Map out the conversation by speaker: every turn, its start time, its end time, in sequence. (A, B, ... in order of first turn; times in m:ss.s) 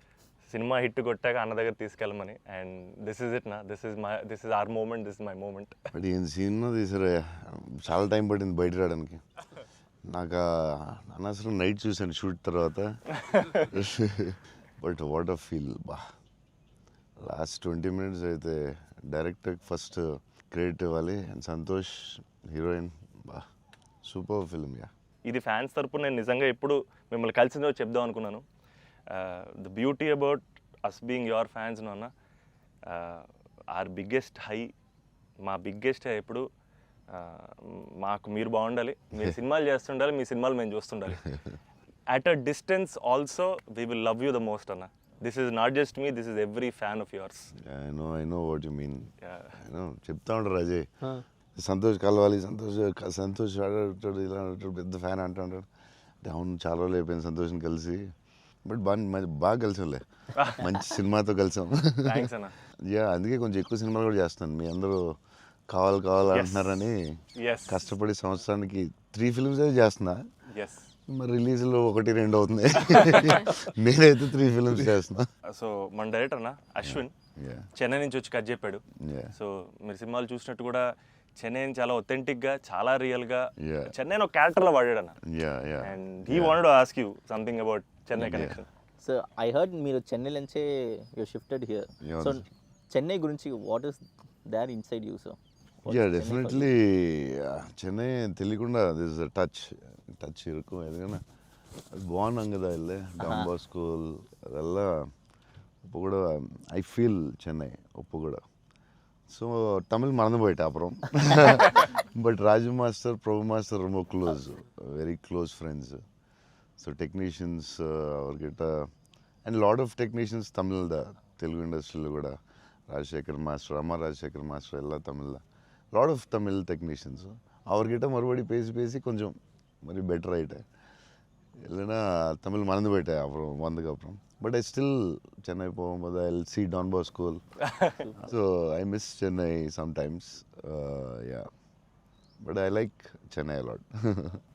0:00.5-0:05.8 A
0:05.9-0:09.2 B
0:10.0-0:12.9 B
0:13.5-0:16.0 B
0:17.2-0:23.4 B
0:24.0-0:24.9 B
0:25.2-0:28.4 A
0:29.1-0:32.1 A
0:32.8-0:34.7 A
0:35.4-0:36.4 A
0:37.1-0:41.2 A
0:42.1-0:47.5 A
0:47.6-0:55.7 B
0:49.2-0:49.6 A
0:56.2-0:58.1 B
0:58.6-1:05.2 B
1:00.3-1:00.6 A
1:02.0-1:02.5 A
1:05.7-1:10.2 B
1:06.3-1:06.8 A
1:07.3-1:07.8 A
1:10.5-1:10.9 A
1:11.1-1:15.3 B
1:12.8-1:13.4 A
1:15.5-1:17.1 A
1:16.8-1:17.7 B
1:17.8-1:18.8 A
1:19.0-1:19.3 B
1:19.3-1:25.1 A
1:23.6-1:24.0 B
1:25.2-1:26.6 B
1:25.8-1:28.7 A
1:28.1-1:28.6 B
1:29.0-1:36.7 C
1:32.0-1:32.4 B
1:35.9-1:41.2 B
1:41.9-1:45.1 B
1:43.2-1:43.5 C
1:45.8-1:48.4 B
1:49.3-1:56.0 B
1:56.8-1:58.9 B
1:59.4-2:02.4 B
2:02.9-2:10.6 B
2:11.6-2:17.4 B
2:17.6-2:18.0 A
2:18.2-2:21.5 B
2:22.4-2:24.4 B